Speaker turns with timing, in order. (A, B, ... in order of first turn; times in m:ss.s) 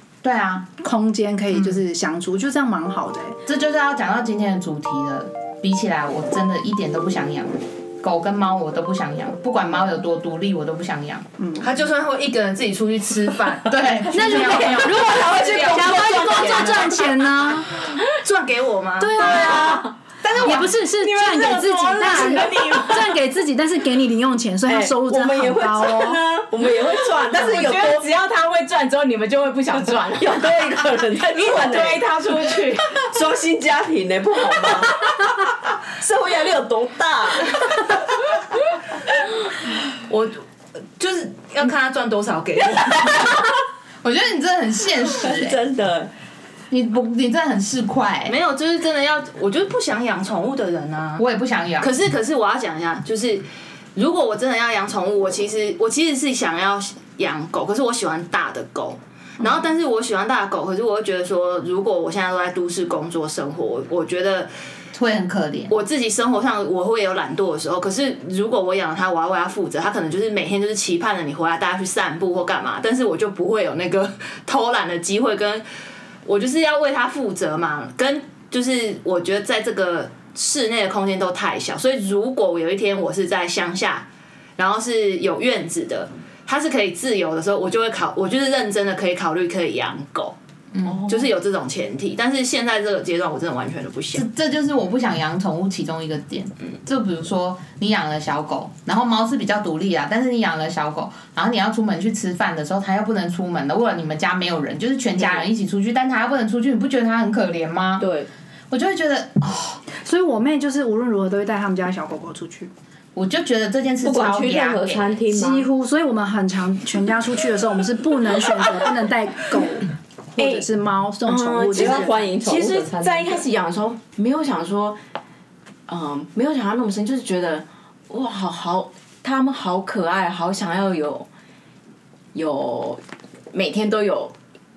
0:00.2-0:00.7 A
0:00.8-0:03.4 B
0:01.5-0:01.8 A
0:03.5-0:11.2 A
0:11.4-0:11.7 B
0:11.6-0:19.6 C
0:13.6-0:15.0 A
0:14.1-0:17.8 B
0:14.9-0:16.7 D
0:19.0-0:26.2 B
0:19.2-0:19.8 D
0:19.4-0:23.1 E
0:24.7-0:28.1 D
0:27.3-0:33.1 E
0:29.9-0:32.1 D
0:32.7-0:37.9 D
0:40.1-0:40.4 C
0:41.0-0:43.5 C
0:44.0-0:45.6 A
0:45.1-0:46.1 D
0:46.7-0:48.3 A
0:48.2-0:51.2 C
0:51.2-0:51.9 A
0:51.8-1:04.5 C
1:04.9-1:05.7 A
1:05.7-1:15.6 C
1:16.2-1:24.0 C
1:24.6-1:30.4 C
1:30.7-1:31.1 A
1:31.0-1:34.3 C
1:34.1-1:48.1 A
1:45.2-1:45.4 D
1:48.0-1:48.3 D
1:48.7-1:49.8 A
1:49.9-1:52.7 B
1:53.1-1:55.1 A
1:54.0-1:55.7 D
1:55.3-2:02.2 B
2:00.4-2:00.7 E
2:01.2-2:05.0 E
2:01.7-2:03.4 D
2:05.9-2:11.3 E
2:12.3-2:13.0 E
2:13.5-2:14.3 E